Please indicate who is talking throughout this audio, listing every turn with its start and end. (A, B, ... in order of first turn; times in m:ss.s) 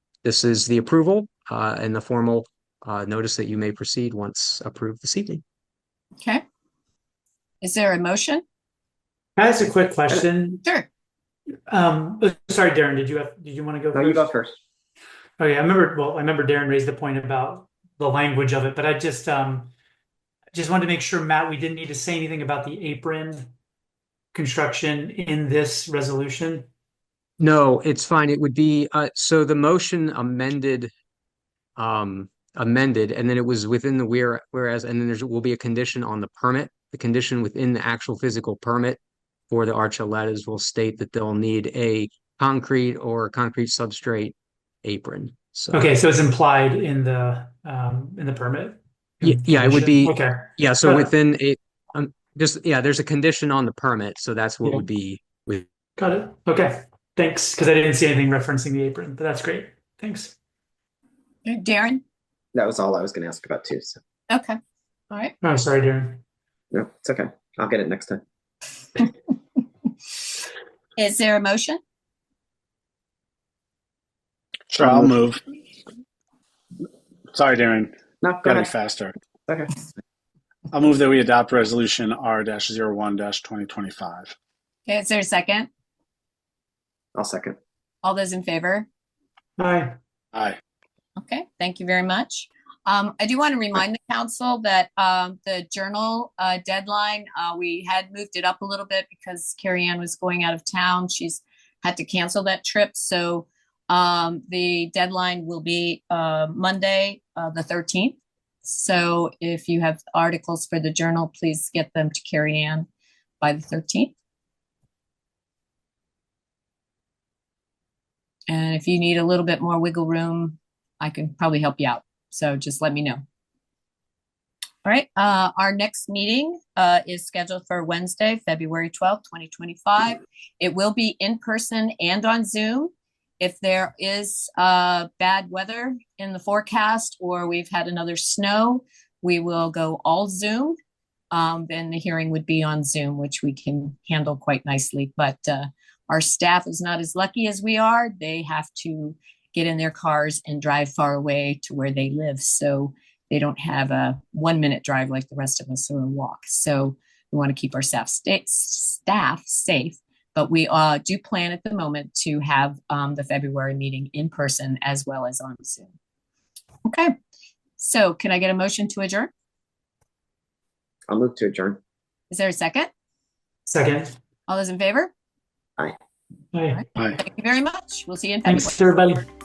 0:00.2-0:05.4 A
0:07.6-0:08.4 B
0:09.4-0:10.6 C
0:11.7-0:14.3 C
0:13.9-0:14.6 D
0:15.4-0:19.7 C
0:20.5-0:23.5 C
0:24.3-0:26.7 C
0:27.4-0:30.9 A
0:31.8-0:39.0 A
0:39.5-0:45.9 A
0:45.7-0:51.1 C
0:49.2-0:55.7 A
0:56.0-1:00.3 C
1:01.4-1:02.0 B
1:02.5-1:04.0 D
1:04.3-1:04.6 B
1:05.4-1:06.2 C
1:06.7-1:08.2 D
1:11.0-1:11.8 B
1:14.7-1:15.4 E
1:14.8-1:15.1 D
1:17.3-1:19.2 E
1:18.2-1:18.7 D
1:19.5-1:19.8 D
1:20.7-1:24.3 E
1:24.9-1:25.7 B
1:27.1-1:27.6 D
1:28.0-1:28.9 B
1:29.6-1:30.0 C
1:31.2-1:52.9 B
1:53.4-1:54.1 B
1:58.5-2:03.2 B
2:04.8-2:20.8 B
2:21.3-2:45.9 B
2:46.8-2:47.1 B
2:47.8-2:49.3 B
2:51.1-2:51.8 D
2:52.3-2:52.9 B
2:53.7-2:54.2 C
2:54.5-2:55.1 B
2:56.5-2:56.8 C
2:56.8-2:58.8 B
2:57.0-2:57.2 E
2:58.4-2:59.2 C